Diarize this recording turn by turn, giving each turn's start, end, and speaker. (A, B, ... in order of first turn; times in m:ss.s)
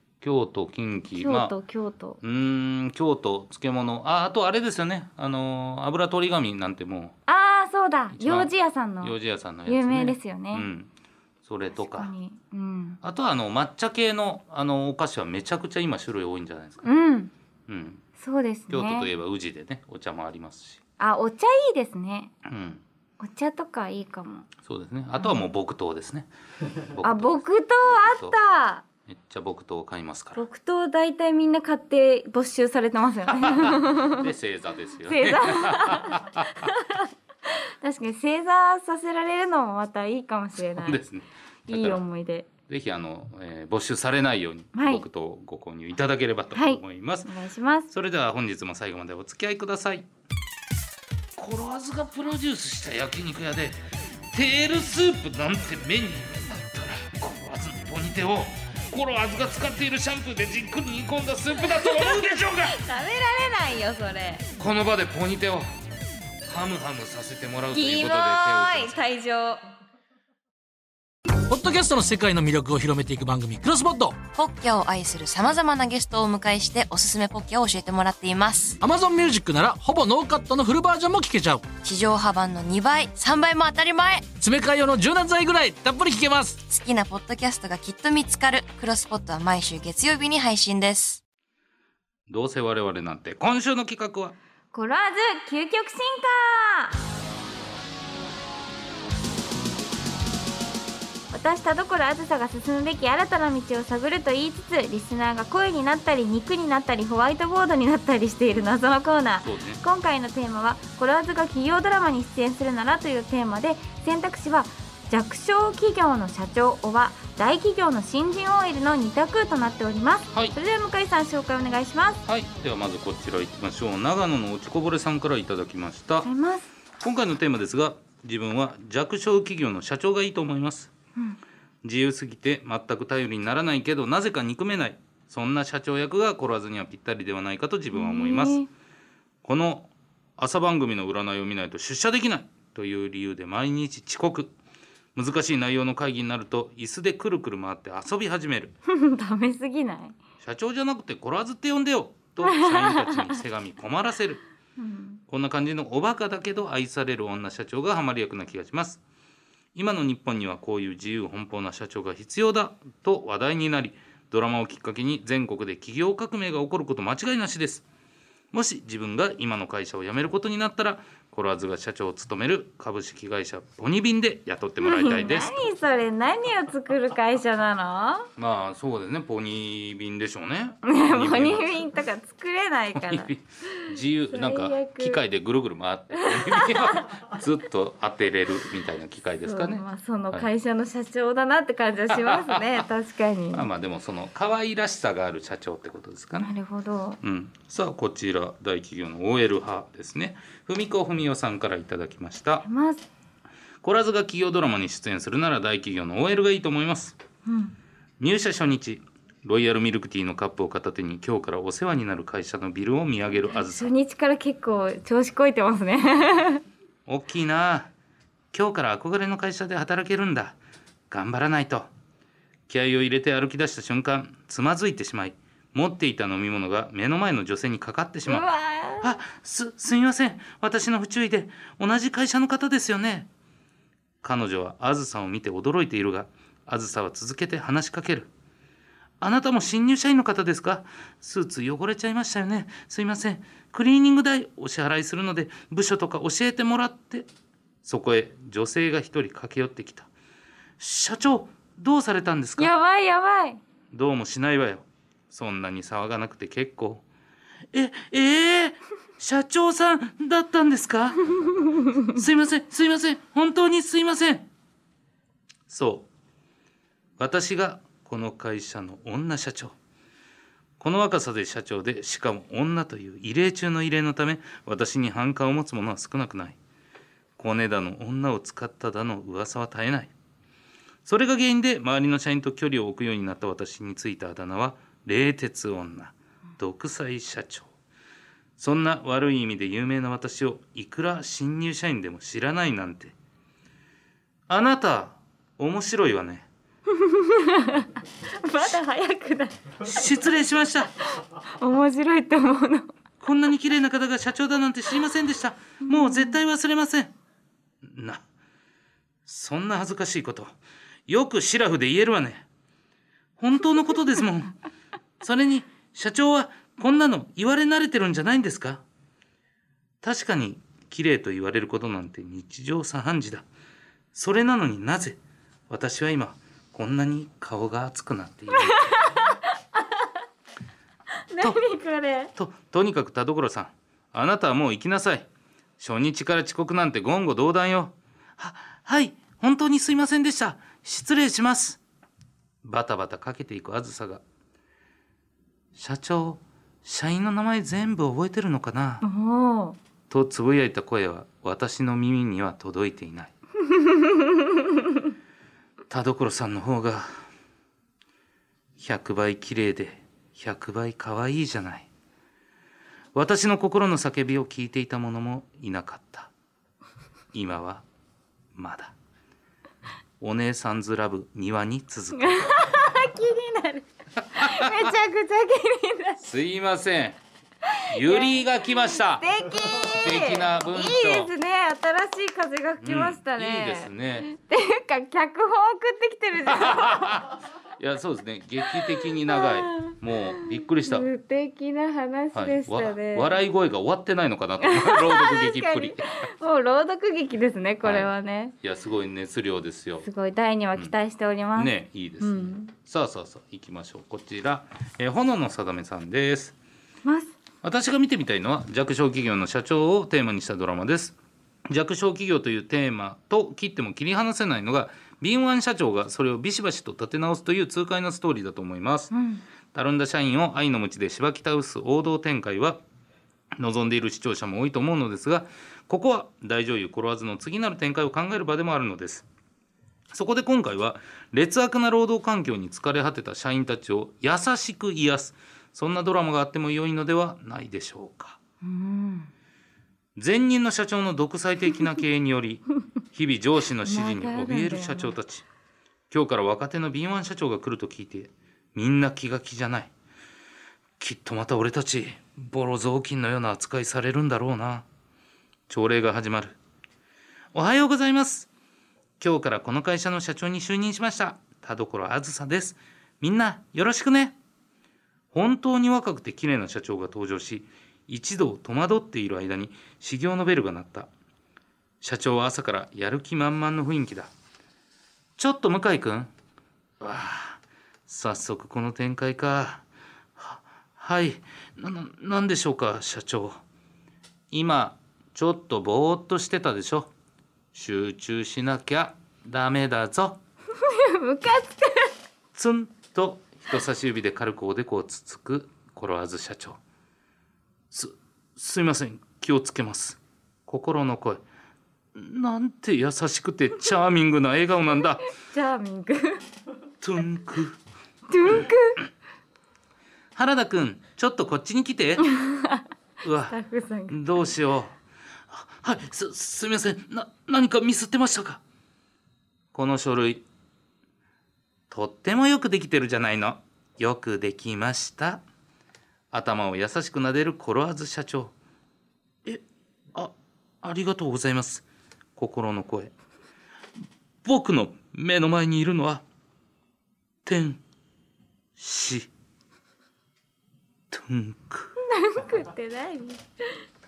0:00.2-0:01.5 A
0:01.2-0:02.2 B
0:02.2-0:07.2 A
0:07.3-0:10.7 B
0:08.1-0:10.9 A
0:11.4-0:12.1 A
0:11.7-0:13.0 B
0:13.0-0:16.9 A
0:16.8-0:17.3 B
0:17.7-0:18.0 A
0:18.2-0:19.1 B
0:18.7-0:20.8 A
0:21.0-0:22.3 B
0:22.4-0:22.8 A
0:23.2-0:24.5 B
0:24.6-0:28.4 A
0:27.0-0:28.8 B
0:29.0-0:30.4 A
0:30.3-0:34.3 B
0:33.3-0:36.7 A
0:35.0-0:41.0 B
0:40.6-0:42.0 A
0:41.7-0:42.5 B
0:42.7-0:47.3 A
0:44.7-0:45.0 B
0:46.5-0:47.9 B
0:47.9-0:50.1 A
0:51.4-0:53.8 A
0:54.3-1:02.8 A
1:01.6-1:04.5 B
1:04.6-1:05.7 A
1:06.4-1:08.9 A
1:07.7-1:09.6 B
1:11.5-1:14.2 C
1:14.3-1:18.8 D
1:18.8-1:21.7 C
1:21.8-1:24.3 D
1:24.4-1:26.6 C
1:26.7-1:31.2 D
1:32.3-1:34.3 A
1:34.7-1:37.0 B
1:41.3-2:02.2 B
1:49.4-1:49.8 A
2:02.2-2:06.3 A
2:06.2-2:06.7 B
2:07.0-2:10.9 A
2:11.8-2:18.6 A
2:17.9-2:18.7 B
2:19.4-2:24.5 A
2:25.1-2:28.7 A
2:28.9-2:30.2 B
2:30.4-2:34.4 A
2:32.4-2:33.4 B
2:34.8-2:35.2 B
2:35.3-2:39.0 A
2:39.7-2:47.8 A
2:48.5-2:55.6 A
2:54.8-2:58.3 B
2:58.4-3:01.8 A
3:00.8-3:05.2 B
3:02.9-3:10.5 A
3:06.2-3:07.1 B
3:09.4-3:13.7 B
3:12.1-3:12.8 A
3:13.5-3:16.5 A
3:16.4-3:17.2 B
3:17.2-3:22.6 A
3:22.6-3:23.1 B
3:23.8-3:27.2 A
3:27.4-3:27.7 B
3:28.2-3:33.9 A
3:33.5-3:36.6 B
3:37.0-3:37.9 A
3:38.5-3:40.6 A
3:41.1-3:41.9 A
3:42.7-3:48.5 A
3:48.3-3:49.1 B
3:49.0-3:53.3 A
3:54.2-3:58.3 A
3:59.2-4:07.3 A
4:07.8-4:10.1 A
4:10.8-4:12.7 A
4:12.6-4:13.6 B
4:13.9-4:17.0 A
4:17.7-4:24.5 A
4:21.6-4:22.1 B
4:25.7-4:26.1 A
4:27.2-4:29.7 A
4:30.8-4:36.6 A
4:37.4-4:40.1 A
4:41.0-4:47.7 A
4:48.6-4:53.1 A
4:54.5-4:56.5 A
4:56.9-4:59.7 B
4:59.8-5:00.9 A
5:01.2-5:02.9 B
5:03.2-5:07.1 A
5:05.8-5:06.4 B
5:07.8-5:08.2 A
5:09.2-5:10.5 A
5:11.1-5:12.4 A
5:13.4-5:14.5 A
5:15.2-5:18.8 A
5:20.0-5:23.4 A
5:24.1-5:28.8 A
5:28.5-5:30.0 B
5:31.3-5:32.3 B
5:32.4-5:41.8 A
5:42.6-5:44.2 A
5:45.7-5:49.0 A
5:49.0-5:49.8 B
5:50.1-5:53.3 A
5:53.7-5:54.6 B
5:55.9-5:57.2 A
5:58.8-6:01.9 A
6:03.1-6:06.3 A
6:07.3-6:07.8 A
6:08.5-6:08.9 A
6:10.2-6:12.6 A
6:12.1-6:16.2 B
6:14.3-6:14.9 A
6:16.2-6:17.2 A
6:17.7-6:18.4 B
6:17.9-6:21.3 A
6:18.9-6:27.2 B
6:22.8-6:24.3 A
6:26.4-6:31.1 A
6:29.2-6:33.4 B
6:32.3-6:36.1 A
6:34.6-6:38.5 B
6:37.8-6:40.1 A
6:40.0-6:42.7 B
6:41.5-6:46.5 A
6:47.0-6:47.3 B
6:47.6-6:51.2 A
6:51.7-6:59.1 A
6:59.1-6:59.4 B
6:59.7-7:02.8 A
7:03.5-7:09.3 A
7:10.1-7:18.4 A
7:18.6-7:19.3 B
7:20.2-7:25.4 A
7:23.8-7:25.2 B
7:26.1-7:29.9 A
7:31.0-7:34.9 A
7:35.7-7:36.6 A
7:37.5-7:38.5 A
7:39.2-7:44.4 A
7:45.3-7:51.1 A
7:52.0-7:54.3 A
7:55.4-7:56.3 A
7:57.0-7:59.8 A
8:00.4-8:03.6 A
8:04.5-8:07.1 A
8:07.7-8:10.4 A
8:10.8-8:12.1 B
8:12.5-8:16.8 A
8:17.9-8:21.4 A
8:22.1-8:25.2 A
8:25.3-8:26.4 B
8:27.0-8:27.8 A
8:28.3-8:29.0 B
8:30.3-8:32.3 A
8:32.2-8:32.8 B
8:33.2-8:33.6 A
8:33.5-8:34.2 B
8:34.1-8:34.9 A
8:35.5-8:38.6 A
8:39.7-8:40.4 A
8:41.9-8:45.4 A
8:46.3-8:48.5 A
8:50.1-8:51.8 A
8:52.4-8:53.1 A
8:54.4-8:56.2 A
8:57.4-8:57.8 A
8:58.8-8:59.3 A
9:01.1-9:01.9 A
9:02.0-9:03.4 B